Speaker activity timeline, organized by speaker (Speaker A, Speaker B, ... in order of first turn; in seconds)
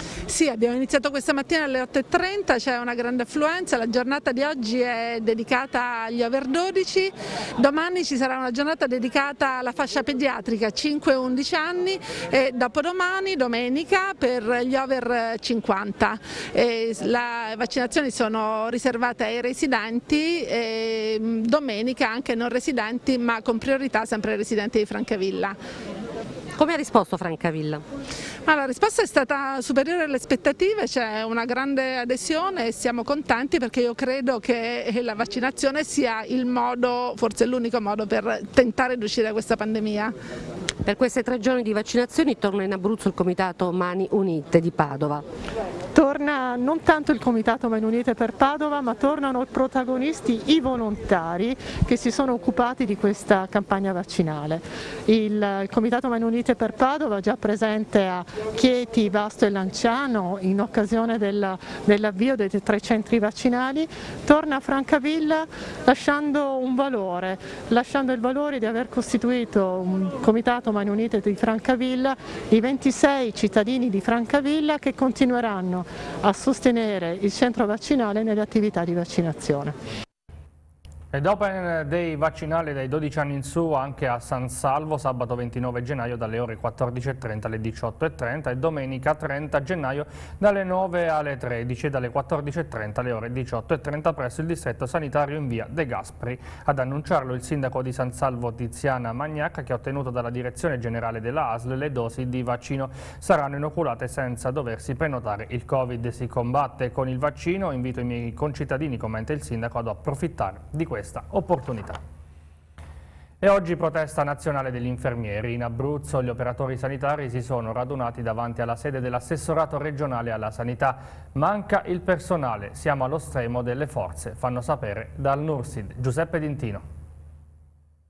Speaker A: 0.3-25.6, 28.4-40.1
Speaker B: 26.6-27.8, 40.8-45.2
Speaker C: 45.9-79.8
Speaker D: 81.1-112.0, 113.4-126.8